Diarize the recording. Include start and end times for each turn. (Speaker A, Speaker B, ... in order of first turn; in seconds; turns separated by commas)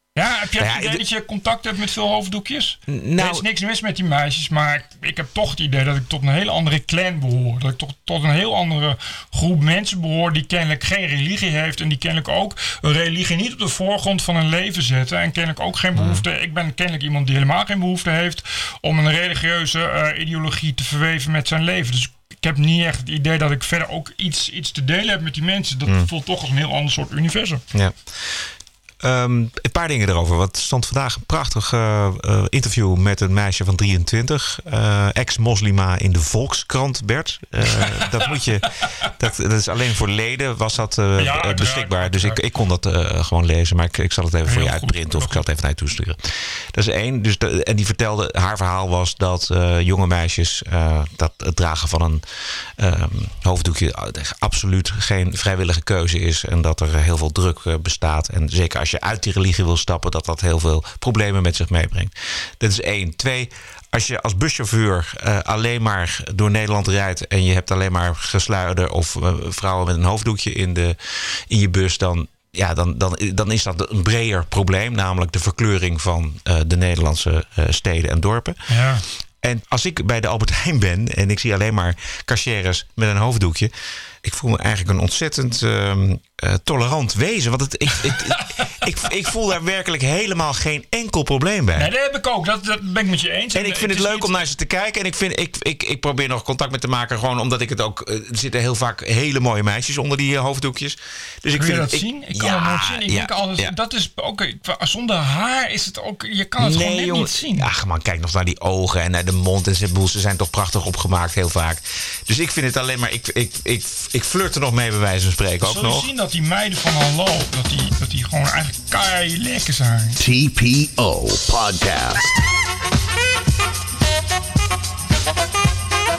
Speaker A: 0.1-27.6, Speaker B: 0.6-1.0, Speaker B: 2.9-3.5, Speaker B: 15.9-16.3, Speaker B: 27.7-28.5, Speaker B: 29.0-78.7, Speaker A: 37.7-38.1, Speaker A: 38.8-39.1, Speaker A: 41.2-42.4, Speaker A: 44.5-45.5, Speaker A: 78.7-79.1, Speaker B: 79.4-83.7, Speaker B: 84.2-91.9, Speaker A: 88.0-89.1, Speaker A: 91.8-94.4, Speaker B: 93.5-103.8, Speaker A: 101.5-107.7, Speaker B: 106.6-116.1, Speaker A: 115.6-120.2, Speaker C: 120.2-122.4